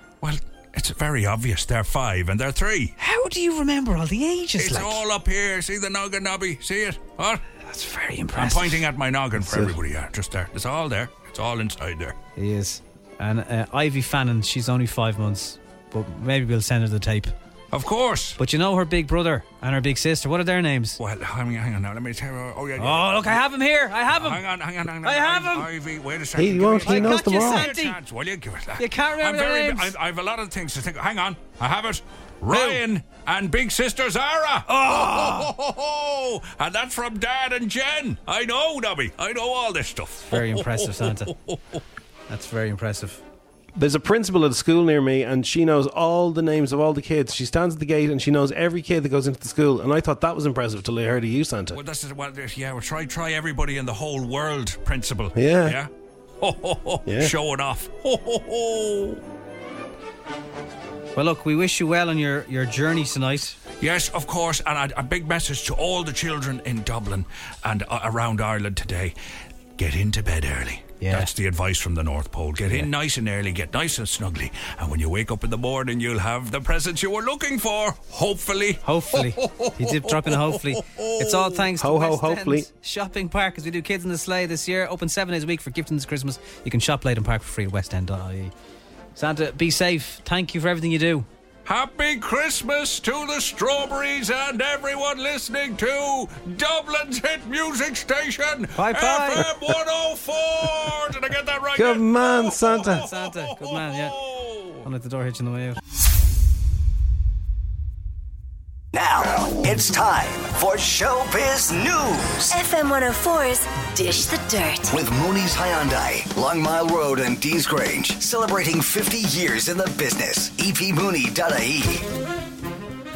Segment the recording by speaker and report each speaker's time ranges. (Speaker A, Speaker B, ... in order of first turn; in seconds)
Speaker A: 0.2-2.9, 4.6-7.4, 8.3-12.2, 17.7-18.4, 21.0-23.4, 24.1-41.8, 51.7-55.9, 56.4-59.2, 63.8-69.1, 69.8-81.7, 91.6-104.9
Speaker B: 3.0-5.0, 7.6-8.9, 12.3-17.3, 18.4-21.0, 22.8-24.4, 25.0-25.7, 26.8-28.0, 28.8-29.9, 32.5-32.8, 34.7-35.5, 40.3-41.3, 42.3-43.2, 61.1-63.6, 71.0-71.3, 72.6-72.9, 78.8-88.5, 89.2-91.3, 98.8-99.5, 102.9-104.2, 104.8-105.8
Speaker C: 9.4-9.7, 26.3-27.7, 43.8-51.8, 55.3-55.8, 57.0-57.3, 81.7-82.7, 101.7-103.1
Speaker D: 108.9-112.5, 114.9-122.0
Speaker E: 112.5-114.9